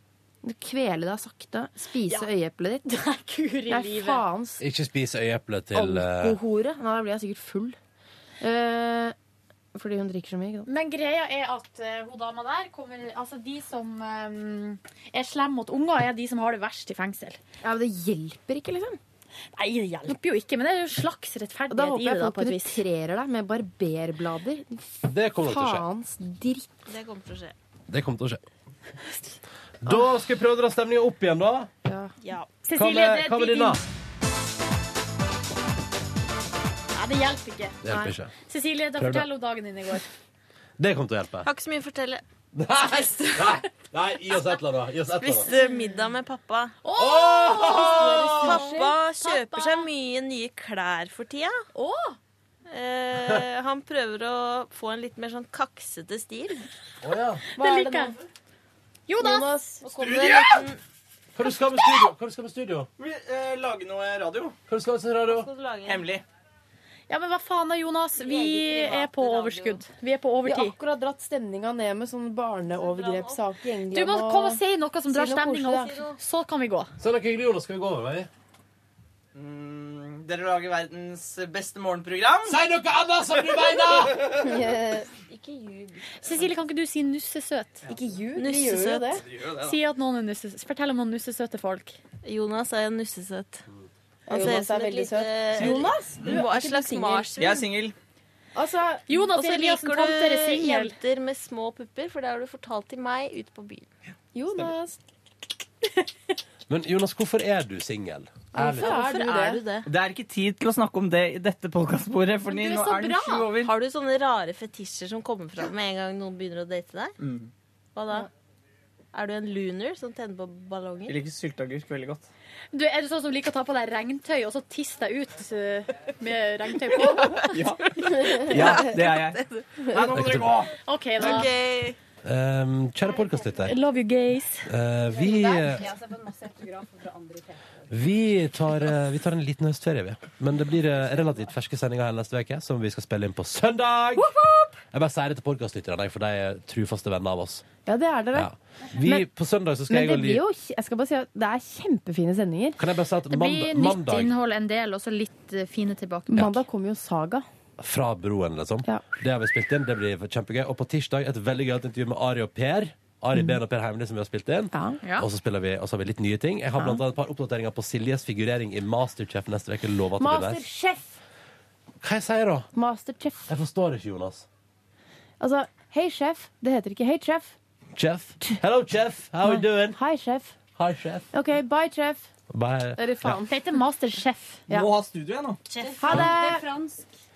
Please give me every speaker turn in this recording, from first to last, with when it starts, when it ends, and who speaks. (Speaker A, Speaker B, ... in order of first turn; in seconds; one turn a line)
Speaker A: 0.4-2.9
Speaker B: 2.9-4.2
Speaker A: 3.7-4.6
Speaker C: 4.6-6.4
Speaker A: 5.7-7.8
Speaker A: 8.4-9.1
Speaker A: 9.7-10.7
Speaker B: 10.7-17.4
Speaker A: 17.6-19.0
Speaker B: 19.6-22.8
Speaker A: 21.7-24.9
Speaker C: 25.1-25.8
Speaker A: 25.4-26.8
Speaker D: 26.9-27.6
Speaker C: 27.9-28.4
Speaker B: 29.1-29.4
Speaker C: 29.8-31.7
Speaker A: 31.8-32.1
Speaker D: 32.2-32.6
Speaker B: 32.6-33.8
Speaker C: 32.7-33.8
Speaker B: 36.9-37.8
Speaker C: 37.8-38.3
Speaker B: 38.5-40.1
Speaker C: 39.0-39.3
Speaker C: 40.8-41.5
Speaker D: 41.4-42.2
Speaker C: 42.5-45.5
Speaker D: 45.1-46.8
Speaker B: 46.8-49.9
Speaker C: 47.0-48.5
Speaker A: 47.6-48.9
Speaker D: 48.4-51.6
Speaker B: 51.7-52.2
Speaker D: 52.7-56.7
Speaker C: 57.0-57.4
Speaker A: 57.5-58.2
Speaker B: 57.6-58.1
Speaker B: 59.1-59.5
Speaker A: 59.1-60.5
Speaker E: 59.9-60.6
Speaker D: 60.3-60.8
Speaker C: 61.4-62.9
Speaker E: 63.0-64.5
Speaker C: 64.7-65.5
Speaker D: 65.2-66.1
Speaker E: 65.9-66.2
Speaker B: 67.1-70.8
Speaker D: 68.2-69.9
Speaker A: 70.4-75.9
Speaker D: 72.7-73.4
Speaker B: 73.9-76.9
Speaker D: 75.7-76.2
Speaker C: 77.0-78.3
Speaker E: 79.3-82.6
Speaker C: 82.5-84.4
Speaker A: 84.4-85.1
Speaker D: 85.3-86.5
Speaker B: 86.2-87.8
Speaker A: 87.9-89.2
Speaker D: 88.3-89.2
Speaker E: 89.2-89.8
Speaker B: 89.6-92.0
Speaker D: 92.2-93.7
Speaker A: 94.3-97.3
Speaker D: 94.3-97.7
Speaker E: 97.4-97.9
Speaker A: 98.5-99.7
Speaker B: 99.1-101.0
Speaker D: 99.4-103.9
Speaker A: 104.3-105.0
Speaker C: 106.7-109.0
Speaker A: 108.5-109.6
Speaker D: 108.8-109.9
Speaker E: 109.9-113.7
Speaker B: 112.5-113.5
Speaker D: 113.6-117.1
Speaker E: 117.2-117.5
Speaker D: 117.9-118.3
Speaker D: 119.1-121.2
Speaker E: 121.1-122.3
Speaker B: 122.7-127.7
Speaker E: 127.5-130.7
Speaker D: 127.8-129.9
Speaker C: 130.1-130.6
Speaker B: 130.8-131.5
Speaker D: 131.2-132.0
Speaker C: 132.2-133.7
Speaker B: 133.6-134.7
Speaker C: 134.7-135.9
Speaker C: 137.9-144.3
Speaker B: 144.2-144.7
Speaker C: 144.9-147.6
Speaker A: 147.8-149.3
Speaker C: 148.3-150.4
Speaker A: 149.9-152.8
Speaker C: 152.8-154.3
Speaker B: 153.3-156.6
Speaker A: 156.3-157.4
Speaker C: 157.8-170.6
Speaker A: 164.7-165.0
Speaker B: 165.0-165.3
Speaker A: 166.8-167.0
Speaker A: 170.2-171.2
Speaker C: 172.0-172.7
Speaker A: 172.7-173.5
Speaker C: 173.5-174.4
Speaker A: 175.4-177.6
Speaker C: 177.9-180.0
Speaker A: 179.4-180.6
Speaker C: 180.8-181.2
Speaker A: 181.3-182.3
Speaker C: 182.5-183.4
Speaker A: 183.0-183.7
Speaker B: 183.5-184.6
Speaker E: 184.7-185.6
Speaker D: 185.7-186.0
Speaker A: 186.0-186.7